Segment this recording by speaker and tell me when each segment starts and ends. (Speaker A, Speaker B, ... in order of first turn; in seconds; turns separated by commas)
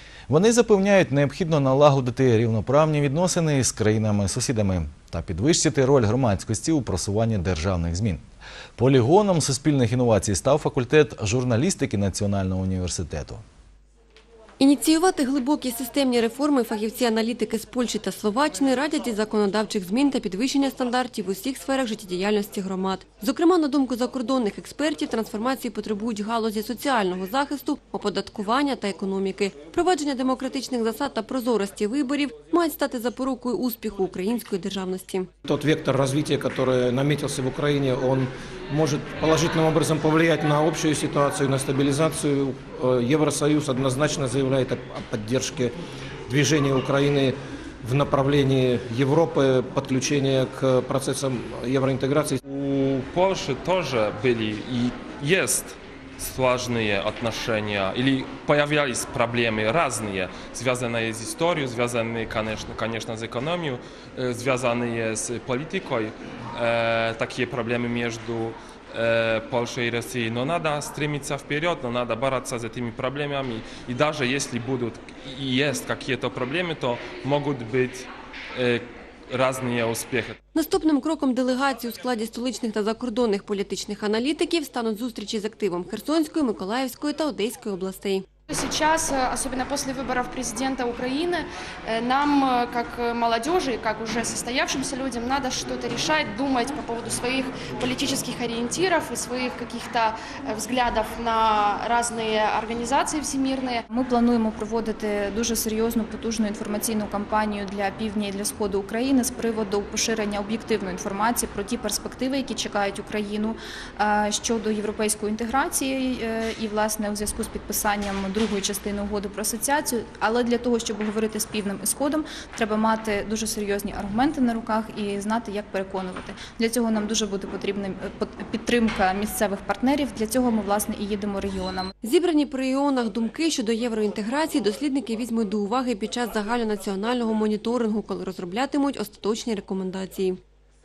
Speaker A: 0.3-8.2, Speaker A: 8.8-13.4, Speaker B: 14.6-35.3, Speaker C: 35.5-45.8, Speaker C: 46.3-52.4, Speaker D: 52.5-80.4, Speaker B: 80.5-88.2, Speaker E: 88.5-103.8, Speaker F: 103.9-131.9, Speaker B: 132.0-140.4